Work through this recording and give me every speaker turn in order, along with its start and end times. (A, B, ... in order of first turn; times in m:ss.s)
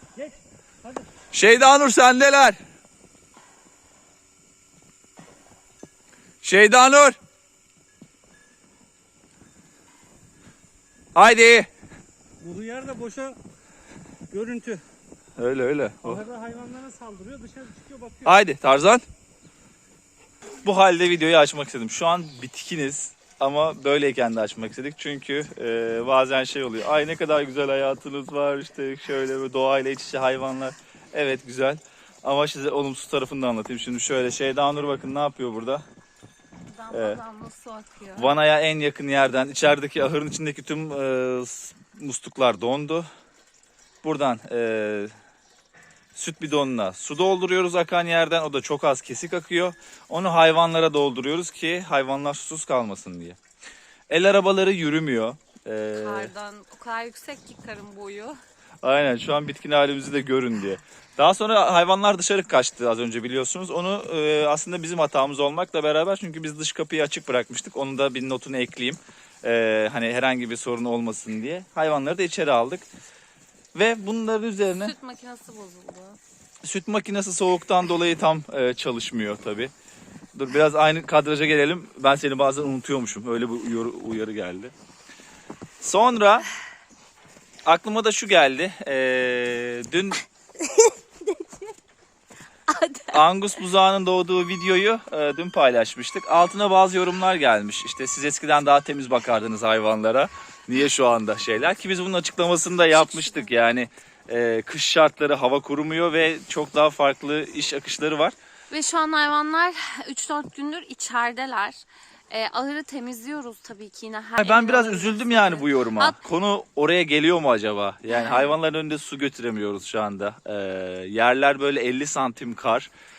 0:00.2-0:01.1 A
0:01.3-0:02.6 B
0:06.4-0:07.2 B
0:11.1-0:11.7 B
0:12.4-0:13.4 A
0:14.3-0:14.8 A
0:15.4-0:16.2 B
0:16.0-0:18.4 A
0:18.2-0:19.0 B
0:20.6-0:35.8 B
0:36.7-0:38.3 C
0:36.9-0:37.2 B
0:38.2-0:43.1 B
0:44.0-0:45.1 B
0:46.2-0:53.4 B
0:54.1-0:56.3 B
0:55.9-0:58.4 C
0:58.8-1:12.9 B
1:13.7-1:14.9 B
1:14.8-1:16.2 C
1:16.6-1:19.7 B
1:20.3-1:24.7 B
1:25.8-1:26.4 B
1:27.6-1:30.2 B
1:30.6-1:31.7 C
1:32.7-1:33.3 C
1:33.1-1:48.3 B
1:42.9-1:43.5 C
1:48.7-1:56.2 C
1:54.4-2:02.9 B
1:58.1-1:58.5 C